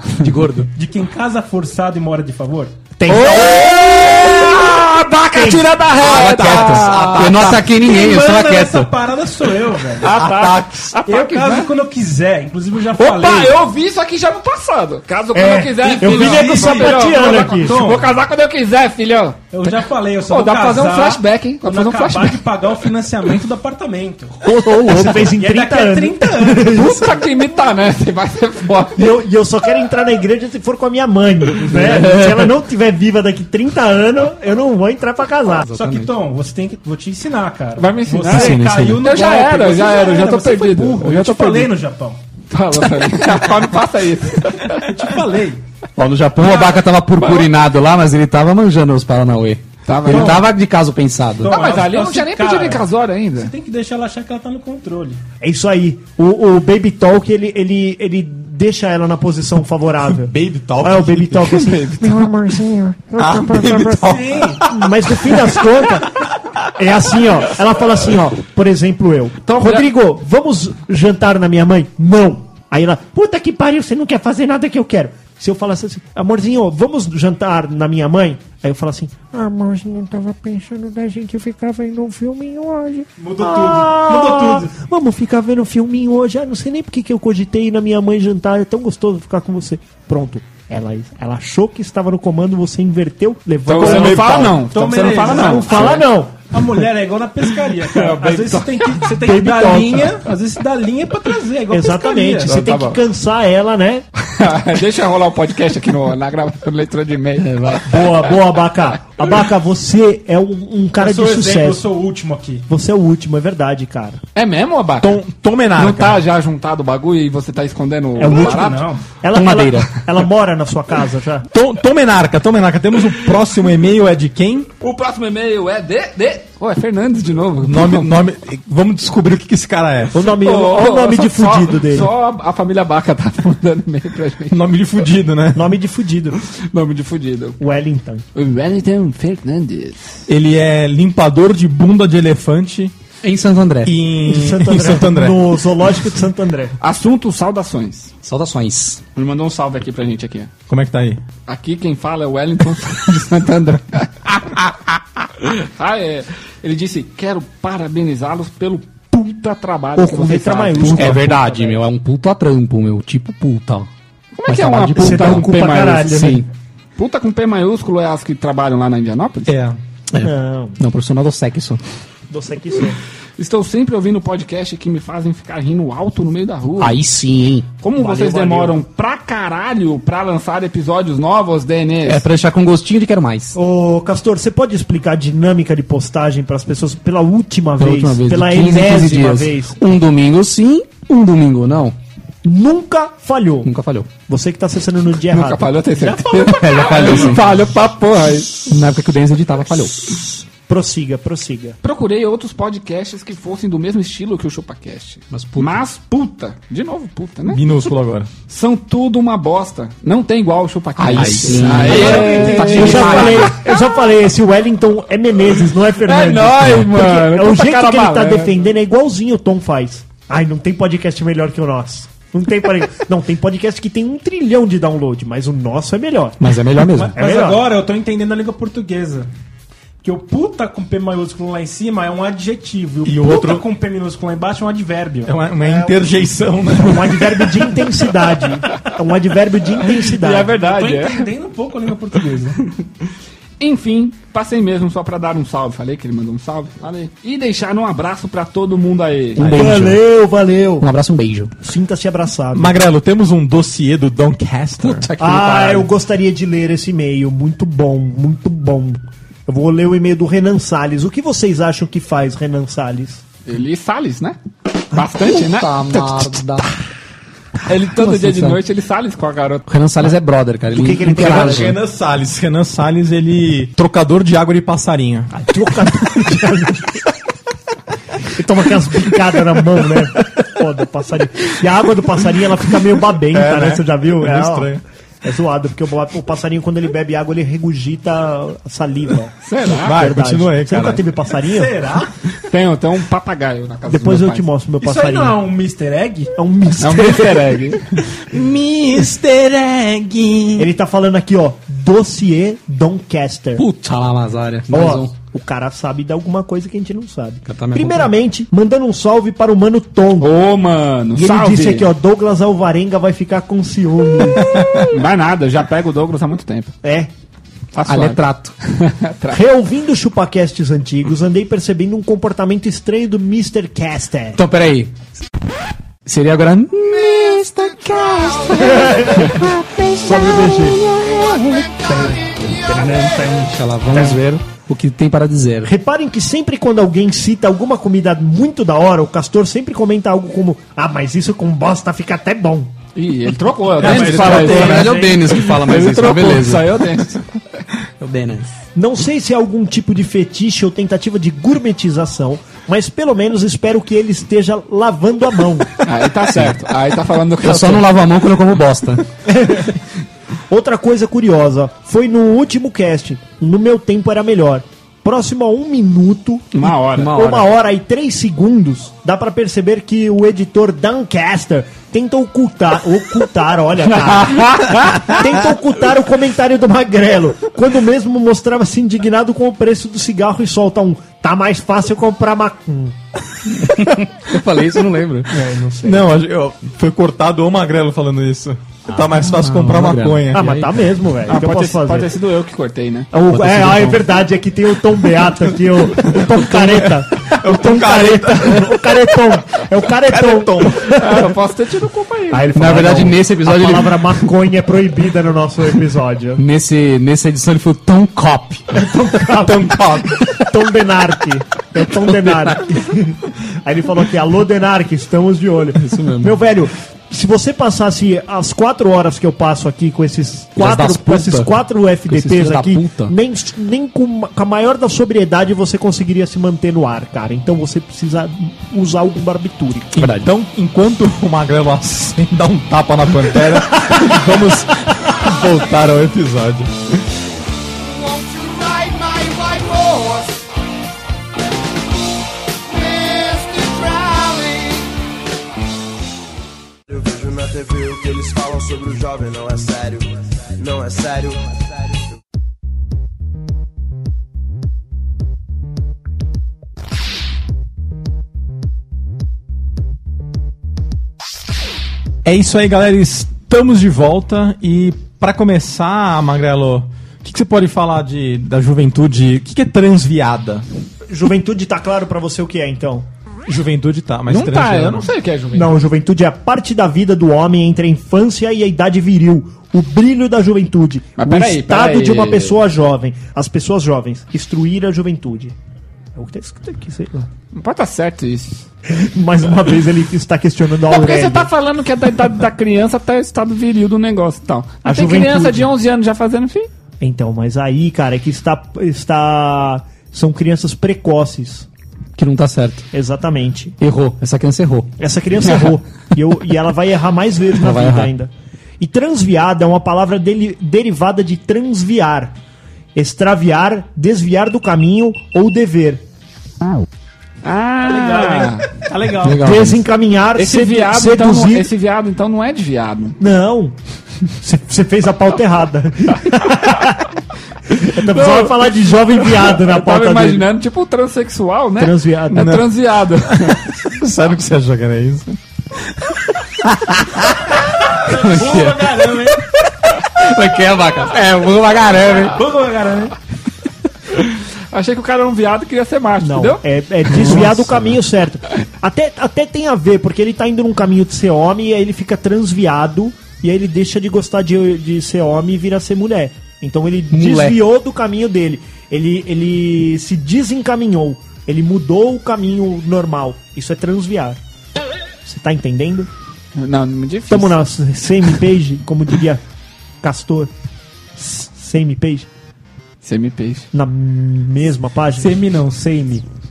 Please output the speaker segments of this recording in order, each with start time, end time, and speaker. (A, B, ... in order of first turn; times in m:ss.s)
0:00.2-0:00.7 A
0:00.8-0:02.8 B
0:03.0-0:05.7 C
0:03.1-0:07.5 D
0:06.0-0:07.7 E
0:06.4-0:08.9 A
0:07.7-0:10.1 B
0:10.0-0:11.7 D
0:10.0-0:11.0 E
0:11.1-0:13.6 B
0:13.0-0:19.6 D
0:15.3-0:17.8 C
0:15.8-0:18.1 B
0:19.5-0:24.4 B
0:20.3-0:22.4 D
0:24.5-0:27.1 C
0:24.6-0:25.2 A
0:25.2-0:26.9 B
0:26.7-0:29.1 D
0:29.0-0:35.7 C
0:31.8-0:32.3 A
0:35.7-0:36.1 A
0:35.7-0:42.2 B
0:37.8-0:41.7 D
0:38.3-0:39.0 A
0:42.5-0:44.9 D
0:44.7-0:45.6 B
0:46.0-0:51.6 A
0:46.4-0:47.5 D
0:49.9-0:50.5 D
0:50.1-0:50.5 B
0:51.4-0:55.2 B
0:51.5-0:53.5 D
0:55.4-1:06.2 C
1:00.1-1:01.6 E
1:01.5-1:02.2 D
1:03.2-1:05.5 E
1:04.1-1:04.6 B
1:06.8-1:36.5 C
1:23.2-1:24.7 B
1:33.7-1:36.0 D
1:33.7-1:34.6 E
1:34.7-1:35.9 B
1:36.5-1:42.7 B
1:37.9-1:39.0 D
1:39.2-1:40.1 C
1:41.7-1:44.0 C
1:42.5-1:43.0 D
1:44.2-1:48.1 D
1:47.4-1:47.8 A
1:47.9-1:51.8 C
1:51.0-1:52.6 B
1:52.7-1:54.2 C
1:54.4-1:55.2 D
1:55.0-1:56.2 E
1:55.7-1:58.9 D
1:58.2-2:01.5 C
1:58.2-1:59.0 B
1:59.3-2:00.0 A
2:01.5-2:04.7 E
2:04.8-2:08.2 D
2:07.6-2:10.2 E
2:10.1-2:12.1 C
2:10.4-2:14.7 D
2:14.5-2:15.7 E
2:15.5-2:16.4 C
2:16.5-2:17.6 D
2:17.6-2:18.2 C
2:18.4-2:20.2 D
2:20.3-2:22.9 E
2:23.2-2:23.9 A
2:23.8-2:25.4 E
2:24.2-2:26.8 C
2:26.8-2:28.1 D
2:28.2-2:29.0 A
2:29.2-2:30.5 D
2:30.7-2:31.2 E
2:31.5-2:34.4 D
2:35.4-2:41.3 D
2:40.0-2:41.3 C
2:40.9-2:43.9 A
2:44.4-2:46.4 D
2:44.5-2:45.5 A
2:44.9-2:46.4 C
2:46.1-2:46.4 A
2:47.0-2:49.5 D
2:49.5-2:49.8 E
2:50.1-2:51.8 A
2:50.2-2:50.8 C
2:52.3-2:53.0 C
2:53.4-2:57.0 D
2:56.8-2:57.7 A
2:57.8-3:02.2 D
2:58.0-2:58.8 C
3:02.1-3:03.6 A
3:03.6-3:09.9 C
3:07.8-3:12.0 A
3:12.4-3:13.7 C
3:13.6-3:14.1 A
3:14.3-3:15.8 C
3:15.3-3:18.6 D
3:15.9-3:17.4 B
3:16.5-3:17.4 A
3:18.7-3:20.0 A
3:20.7-3:21.8 C
3:21.8-3:27.9 D
3:25.3-3:25.7 A
3:27.5-3:28.3 E
3:28.5-3:33.6 D
3:31.0-3:33.5 A
3:31.2-3:32.1 E
3:31.8-3:46.4 C
3:31.9-3:33.5 B
3:36.0-3:38.5 D
3:46.4-3:47.1 A
3:46.9-3:49.3 B
3:47.2-3:47.7 C
3:50.0-3:55.3 B
3:53.0-3:53.7 E
3:55.3-3:57.5 E
3:55.6-3:55.9 C
3:56.7-4:00.5 C
4:00.1-4:01.3 D
4:00.5-4:02.6 B
4:03.6-4:09.5 D
4:09.4-4:10.0 A
4:09.4-4:10.9 C
4:10.8-4:11.5 A
4:11.6-4:12.7 C
4:12.5-4:15.1 E
4:14.8-4:15.9 A
4:15.2-4:23.2 C
4:23.5-4:24.4 D
4:24.9-4:26.4 D
4:25.3-4:26.7 A
4:27.7-4:29.6 D
4:27.9-4:28.6 A
4:29.7-4:31.8 A
4:30.7-4:31.8 C
4:31.1-4:35.3 E
4:35.3-4:37.0 C
4:38.3-4:44.7 C
4:43.3-4:44.8 E
4:45.2-4:51.7 C
4:49.4-4:50.0 D
4:49.8-4:51.0 E
4:51.5-4:52.1 B
4:52.5-4:54.5 D
4:53.9-4:55.4 C
4:54.8-4:56.3 B
4:56.4-4:57.6 C
4:56.8-4:58.0 D
4:58.3-5:00.7 E
5:00.6-5:03.6 C
5:03.6-5:05.1 A
5:04.7-5:10.3 C
5:07.5-5:08.1 A
5:10.2-5:11.9 D
5:11.1-5:14.4 C
5:14.5-5:14.9 E
5:14.8-5:16.7 D
5:16.8-5:17.1 C
5:17.7-5:19.4 D
5:17.9-5:18.5 A
5:19.3-5:24.4 C
5:24.4-5:24.9 A
5:26.1-5:31.6 A
5:28.5-5:30.9 C
5:31.9-5:33.1 C
5:32.6-5:35.7 A
5:33.9-5:34.2 C
5:35.6-5:42.7 C
5:42.9-5:47.6 D
5:43.8-5:45.3 B
5:43.8-5:44.9 E
5:43.8-5:46.6 A
5:48.0-5:48.5 A
5:48.8-5:55.8 C
5:55.8-5:57.9 D
5:57.4-5:59.0 A
5:59.3-5:59.7 C
6:00.5-6:23.0 C
6:06.5-6:07.4 D
6:07.0-6:07.4 A
6:14.1-6:15.1 D
6:23.6-6:25.3 A
6:25.4-6:25.9 B
6:25.7-6:26.0 C
6:25.8-6:30.5 E
6:29.2-6:30.7 A
6:30.3-6:32.1 C
6:31.3-6:33.1 D
6:33.1-6:41.3 C
6:33.3-6:34.0 A
6:35.9-6:39.0 E
6:40.1-6:41.0 E
6:40.9-6:42.5 D
6:42.3-6:46.4 C
6:42.6-6:44.2 A
6:46.4-6:48.7 A
6:48.7-7:10.0 C
6:49.3-6:50.2 E
6:52.0-6:52.7 A
6:55.8-6:56.4 A
7:00.6-7:03.1 A
7:10.0-7:16.7 E
7:10.0-7:10.3 A
7:17.9-7:20.4 F
7:22.7-7:24.8 F
7:26.9-7:32.0 F
7:42.2-7:50.6 E
7:51.1-7:53.1 C
7:53.5-7:55.1 E
7:54.3-7:55.8 D
7:55.5-8:05.6 C
8:01.2-8:02.6 D
8:06.1-8:07.3 C
8:07.5-8:08.7 D
8:08.9-8:11.5 C
8:10.9-8:16.7 D
8:14.8-8:15.7 C
8:17.0-8:21.7 C
8:22.2-8:22.9 A
8:22.9-8:23.8 C
8:23.8-8:24.9 A
8:25.0-8:32.4 C
8:27.6-8:28.1 A
8:32.9-8:36.0 C
8:37.4-8:38.7 D
8:37.8-8:39.5 B
8:39.2-8:39.8 A
8:39.4-8:41.7 C
8:40.4-8:43.2 D
8:43.2-8:43.8 C
8:44.4-8:47.1 C
8:47.7-8:50.5 C
8:48.0-8:53.7 D
8:51.8-8:52.6 C
8:52.3-8:52.7 E
8:53.3-8:55.4 E
8:58.0-8:59.4 B
8:58.2-8:58.9 A
9:00.1-9:02.4 A
9:02.3-9:03.1 B
9:04.1-9:06.6 D
9:06.2-9:24.4 C
9:17.1-9:17.6 A
9:25.2-9:26.1 C
9:26.6-9:27.6 D
9:27.3-9:29.4 C
9:30.0-9:30.5 C
9:31.2-9:32.3 C
9:33.0-9:33.7 D
9:33.7-9:36.2 C
9:35.2-9:36.2 B